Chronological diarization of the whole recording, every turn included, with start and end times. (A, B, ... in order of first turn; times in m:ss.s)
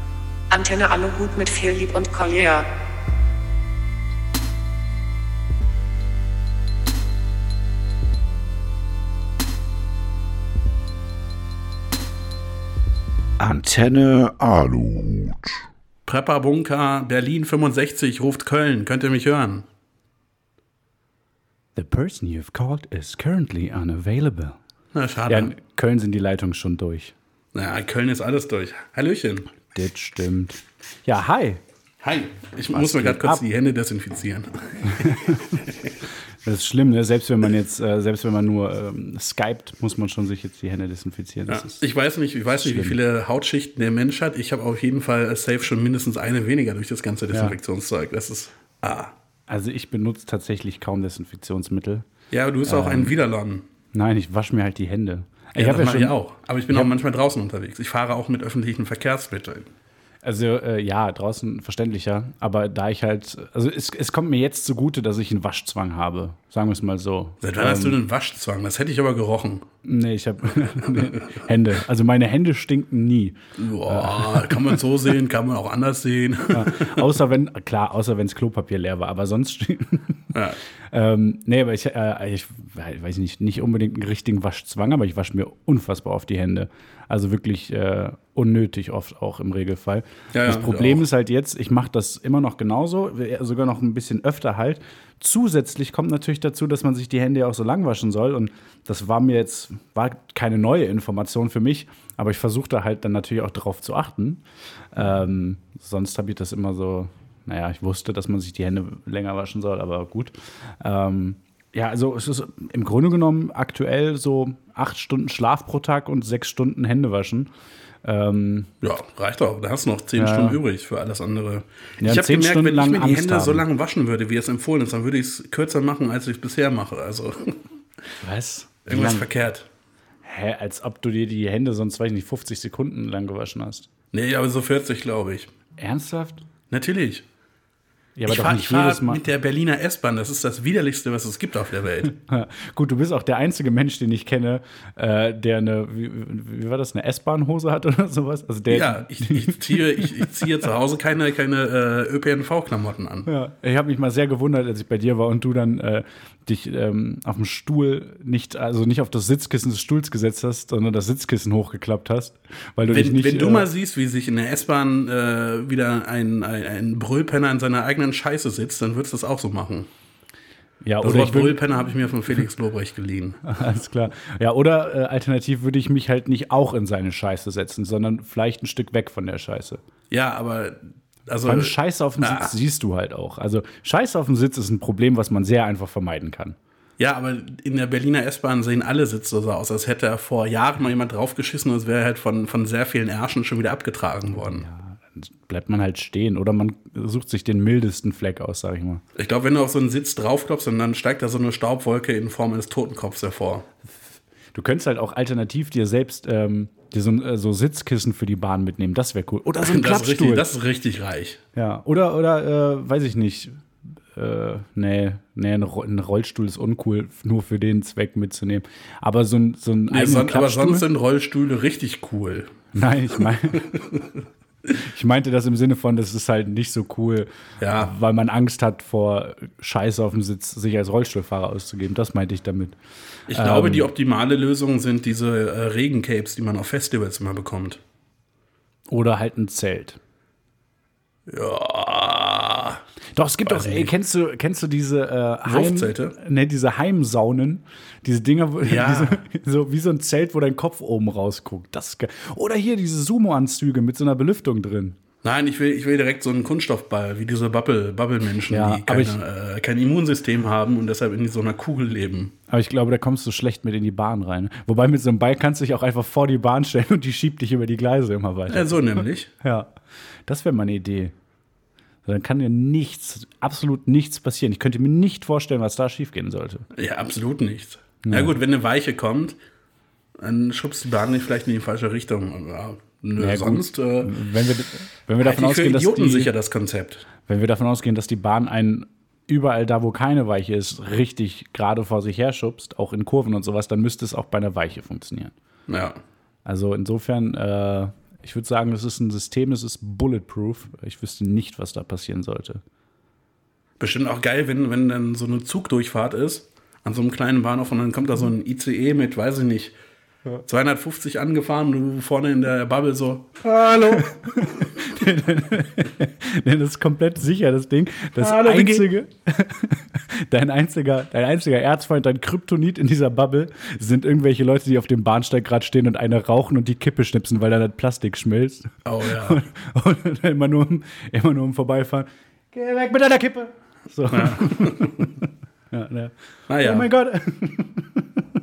0:00.5-0:02.7 A
0:13.4-0:15.5 B
0:16.0-0:19.7 C
0:21.8-0:24.6 B
0:24.9-0:25.5 C
0:25.3-0:27.1 B
0:27.5-0:29.5 C
0:29.7-0:31.6 B
0:32.0-0:35.9 C
0:32.7-0:33.4 B
0:34.9-0:35.6 B
0:36.4-0:41.8 B
0:41.5-0:49.1 C
0:42.6-0:43.0 B
0:47.3-0:47.6 B
0:49.5-0:52.0 B
0:52.3-0:53.7 C
0:52.6-0:53.1 B
0:53.9-0:56.2 B
0:55.6-0:59.7 C
1:00.2-1:08.0 B
1:07.4-1:09.7 C
1:09.8-1:14.7 B
1:13.6-1:17.1 C
1:16.5-1:20.3 B
1:20.3-1:20.6 C
1:20.9-1:44.4 B
1:30.3-1:31.0 C
1:44.9-1:57.5 B
1:58.0-1:58.7 B
1:58.8-2:07.6 C
2:00.2-2:00.6 B
2:02.0-2:03.6 B
2:08.2-2:09.3 B
2:08.9-2:09.7 C
2:10.2-2:13.9 B
2:14.1-2:15.5 C
2:15.8-2:16.4 B
2:16.7-2:17.2 C
2:18.2-2:19.2 B
2:18.3-2:22.2 C
2:22.1-2:30.4 B
2:28.7-2:33.3 C
2:33.2-2:43.7 B
2:42.9-2:49.9 C
2:50.8-2:51.6 B
2:51.0-2:53.4 C
2:53.4-2:59.8 B
3:00.1-3:02.6 C
3:01.4-3:06.6 B
3:07.0-3:14.7 C
3:14.4-3:19.0 B
3:19.2-3:23.7 C
3:24.5-3:30.6 B
3:29.6-3:31.4 C
3:31.6-3:33.6 B
3:34.1-3:40.9 B
3:39.9-3:42.5 C
3:42.7-3:43.8 B
3:43.5-3:44.0 C
3:44.7-3:52.8 B
3:47.6-3:47.9 C
3:53.3-3:53.9 B
3:53.3-3:57.8 C
3:58.9-4:00.0 B
4:01.3-4:02.8 C
4:03.1-4:15.0 B
4:03.4-4:03.9 C
4:05.4-4:06.2 C
4:08.6-4:09.2 C
4:15.2-4:22.3 C
4:18.5-4:19.2 B
4:22.5-4:29.7 B
4:28.5-4:29.3 C
4:30.2-4:31.1 B
4:32.0-4:36.7 B
4:36.7-4:39.4 C
4:38.0-4:38.4 B
4:40.2-4:44.1 C
4:43.2-4:46.3 B
4:45.2-4:47.1 C
4:47.2-4:55.3 B
4:55.7-4:56.0 C
4:56.4-5:02.6 B
5:03.8-5:09.8 C
5:10.4-5:14.1 C
5:13.4-5:38.2 B
5:18.2-5:18.9 C
5:28.8-5:29.4 C
5:34.1-5:35.1 C
5:36.5-5:36.9 C